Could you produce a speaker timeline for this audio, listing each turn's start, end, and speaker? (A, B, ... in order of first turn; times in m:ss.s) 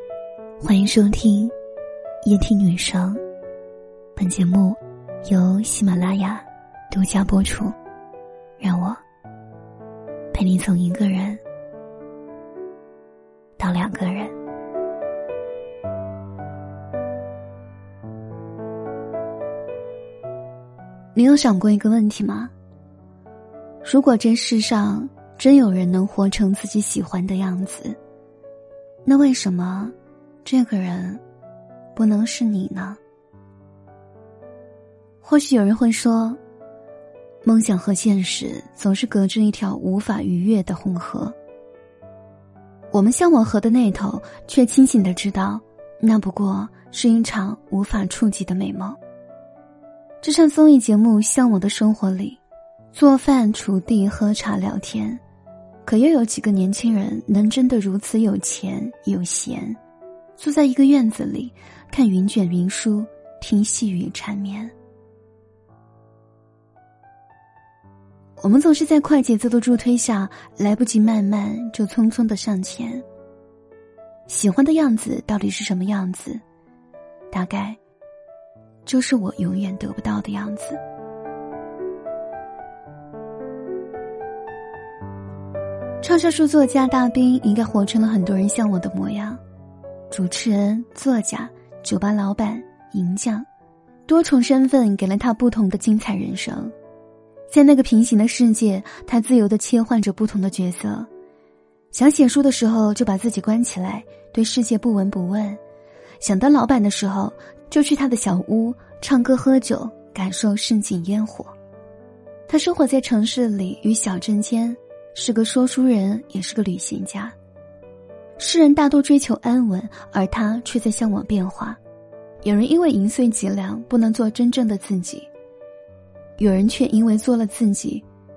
0:00.6-0:01.5 A
0:02.2-0:03.2 A
0:04.2-0:07.7 A
0:08.6-0:09.0 A
0:10.3-0:11.4 A
0:13.6-0:14.3 A
0:21.1-0:22.5 A
0:23.8-0:28.0 A
0:29.0-0:31.2 A
0:32.0-0:33.0 A
0:35.2-0:36.4 A
0:37.4-0:41.4 A
0:42.9-0:49.0 A
0:50.2-0:52.4 A
0:52.9-0:55.2 A
0:55.8-0:59.8 A
1:00.4-1:04.7 A
1:08.4-1:13.0 A
1:14.3-1:16.4 A
1:17.3-1:17.8 A
1:18.8-1:20.8 A
1:26.0-1:29.4 A
1:30.1-1:33.5 A
1:34.1-1:36.7 A
1:37.5-1:41.1 A
1:41.9-1:45.6 A
1:46.2-1:51.5 A
1:52.5-1:57.3 A
1:58.4-2:01.8 A
2:02.4-2:05.3 A
2:06.4-2:08.0 A